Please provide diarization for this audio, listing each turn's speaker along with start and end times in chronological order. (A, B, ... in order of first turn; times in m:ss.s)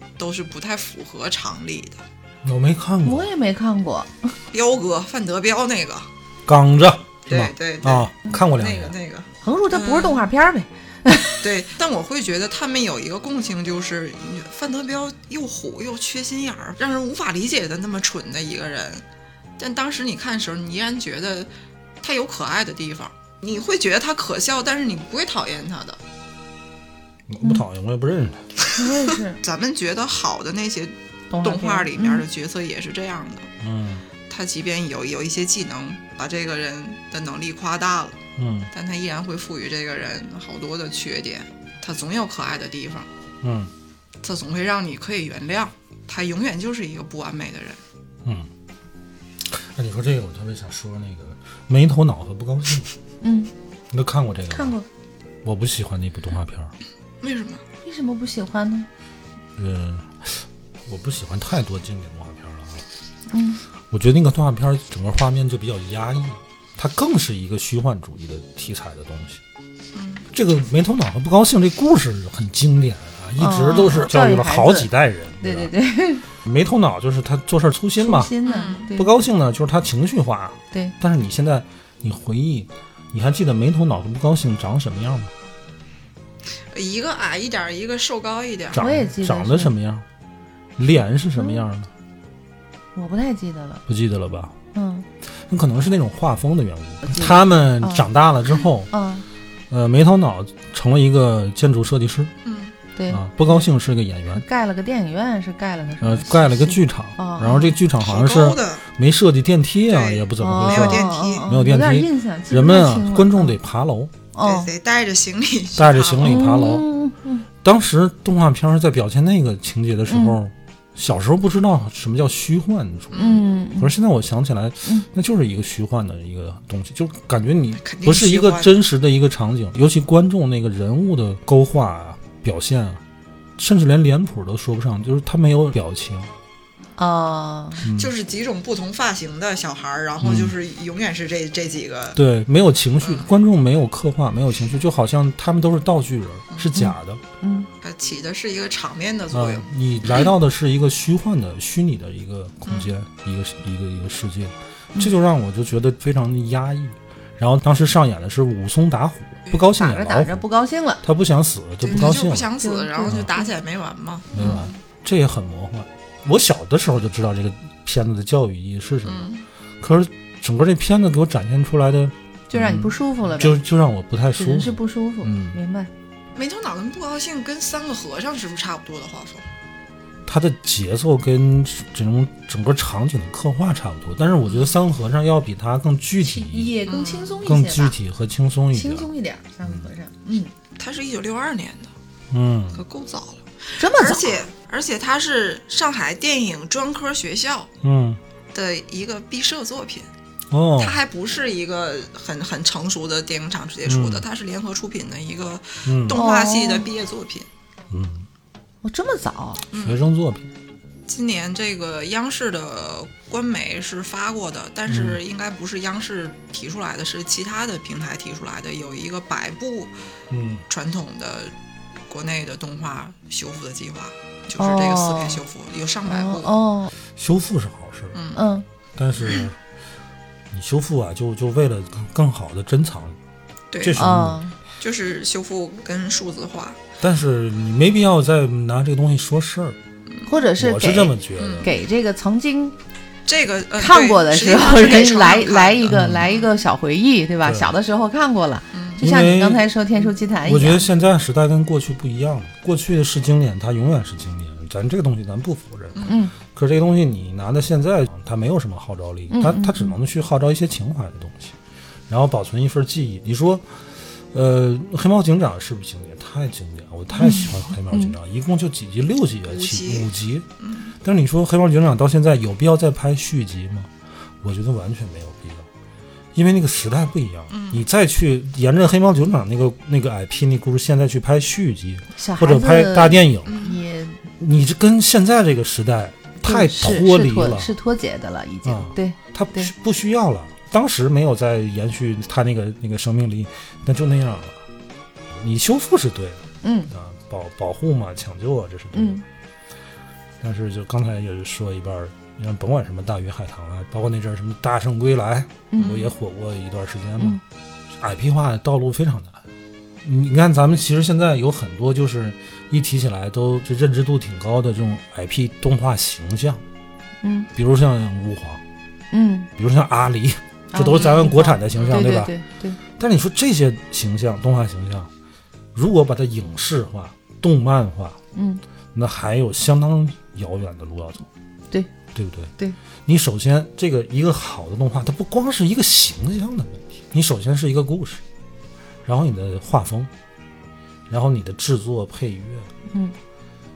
0:00.2-0:02.0 A
0:02.4-0:03.3 B
0:03.0-0:04.3 C
0:04.5-0:06.1 A
0:06.5-0:09.0 B
0:07.2-0:10.3 A
0:09.4-0:11.4 C
0:11.3-0:19.0 A
0:19.6-0:21.5 A
0:22.0-0:26.0 A
0:27.3-0:28.4 B
0:28.6-0:33.5 A
0:28.7-0:29.4 C
0:31.3-0:32.2 C
0:33.6-0:34.0 B
0:34.3-0:38.2 A
0:38.4-0:38.7 B
0:38.7-0:43.1 A
0:43.4-0:43.7 B
0:44.2-0:47.8 A
0:49.4-0:52.9 B
0:53.2-0:53.5 C
0:53.9-0:54.7 B
0:54.5-0:54.8 C
0:55.4-0:56.7 B
0:57.2-0:57.6 A
0:57.8-0:58.9 C
0:59.6-1:02.8 B
1:03.3-1:03.6 C
1:03.9-1:09.4 B
1:09.9-1:10.3 A
1:10.3-1:15.7 B
1:13.4-1:14.9 C
1:15.4-1:16.2 C
1:16.4-1:18.3 B
1:18.0-1:19.1 C
1:18.4-1:18.9 A
1:18.9-1:25.3 B
1:26.7-1:28.8 A
1:28.7-1:30.0 B
1:28.8-1:29.7 C
1:30.8-1:31.9 B
1:31.4-1:31.6 C
1:32.9-1:33.8 C
1:33.9-1:34.5 B
1:34.7-1:35.0 C
1:35.5-1:38.9 B
1:37.0-1:38.1 C
1:38.9-1:39.2 C
1:39.7-1:42.3 B
1:42.4-1:42.7 A
1:43.0-1:43.7 C
1:43.1-1:44.4 B
1:44.3-1:47.8 C
1:46.0-1:54.1 B
1:48.0-1:48.8 A
1:49.9-1:51.5 A
1:50.4-1:53.6 C
1:54.3-1:54.7 C
1:54.4-1:56.4 A
1:55.8-1:56.8 B
1:56.2-1:57.4 C
1:57.6-2:13.0 B
2:00.1-2:00.4 C
2:03.1-2:03.4 A
2:03.2-2:03.9 C
2:07.8-2:08.8 A
2:13.6-2:16.3 B
2:17.0-2:17.9 C
2:17.8-2:18.1 B
2:17.9-2:22.2 A
2:20.2-2:20.5 B
2:22.1-2:27.2 B
2:23.0-2:23.3 A
2:26.5-2:26.8 A
2:26.8-2:27.7 C
2:27.8-2:30.3 A
2:29.3-2:40.4 B
2:39.7-2:41.0 C
2:41.0-2:42.5 B
2:41.8-2:44.8 A
2:41.9-2:43.5 C
2:44.3-2:49.3 B
2:44.4-2:44.7 C
2:49.0-2:49.4 A
2:49.8-2:55.6 B
2:52.5-2:53.6 C
2:54.4-2:55.9 C
2:56.3-2:59.4 A
3:00.2-3:06.7 B
3:04.5-3:04.8 A
3:06.2-3:08.0 C
3:06.9-3:07.4 A
3:07.4-3:09.1 B
3:08.7-3:10.5 C
3:10.3-3:11.9 A
3:12.3-3:12.8 B
3:12.7-3:17.7 A
3:13.8-3:14.4 C
3:17.8-3:18.2 B
3:18.5-3:20.1 A
3:20.5-3:21.0 B
3:20.8-3:27.5 A
3:23.8-3:24.2 B
3:25.8-3:26.2 B
3:26.1-3:26.9 C
3:27.9-3:28.3 B
3:28.8-3:29.6 C
3:29.7-3:30.0 A
3:29.7-3:30.4 B
3:31.1-3:39.9 A
3:34.9-3:35.2 B
3:40.3-3:40.6 B
3:40.7-3:41.5 A
3:42.1-3:46.5 A
3:44.6-3:45.4 C
3:46.0-3:46.9 C
3:47.1-3:48.2 B
3:48.1-3:48.4 A
3:48.3-3:48.6 C
3:49.0-3:49.6 B
3:50.5-3:53.2 B
3:53.7-3:54.0 A
3:53.8-3:54.4 B
3:54.0-3:54.6 C
3:54.8-3:56.8 A
3:57.0-3:59.8 B
4:00.2-4:02.7 C
4:00.6-4:01.7 B
4:01.4-4:01.7 A
4:03.3-4:06.5 A
4:03.8-4:10.9 C
4:05.9-4:06.3 B
4:07.4-4:07.7 B
4:08.7-4:09.0 A
4:09.0-4:09.7 B
4:10.4-4:21.6 B
4:15.9-4:16.2 A
4:16.0-4:16.3 C
4:19.3-4:19.9 C
4:22.1-4:30.4 B
4:27.2-4:28.1 C
4:29.5-4:30.1 A
4:30.6-4:30.9 A
4:31.0-4:35.7 B
4:36.3-4:43.6 B
4:37.5-4:37.8 A
4:42.2-4:44.2 C
4:43.4-4:43.8 A
4:44.4-4:47.7 B
4:46.4-4:49.7 C
4:48.6-4:54.6 B
4:55.3-4:59.2 B
4:56.6-4:56.9 C
4:58.9-4:59.2 C
5:00.4-5:07.4 B
5:05.7-5:06.1 C
5:05.8-5:06.1 A
5:08.0-5:09.4 B
5:10.0-5:16.6 B
5:17.2-5:17.5 C
5:17.6-5:18.6 B
5:19.1-5:19.5 C
5:19.6-5:22.3 B
5:20.7-5:22.8 C
5:20.9-5:22.0 A
5:23.0-5:25.1 B
5:25.7-5:28.2 B
5:28.3-5:28.6 C
5:28.9-5:31.3 B
5:32.1-5:32.5 B
5:33.0-5:38.2 B
5:39.0-5:40.1 B
5:41.1-5:42.7 B
5:42.9-5:43.1 C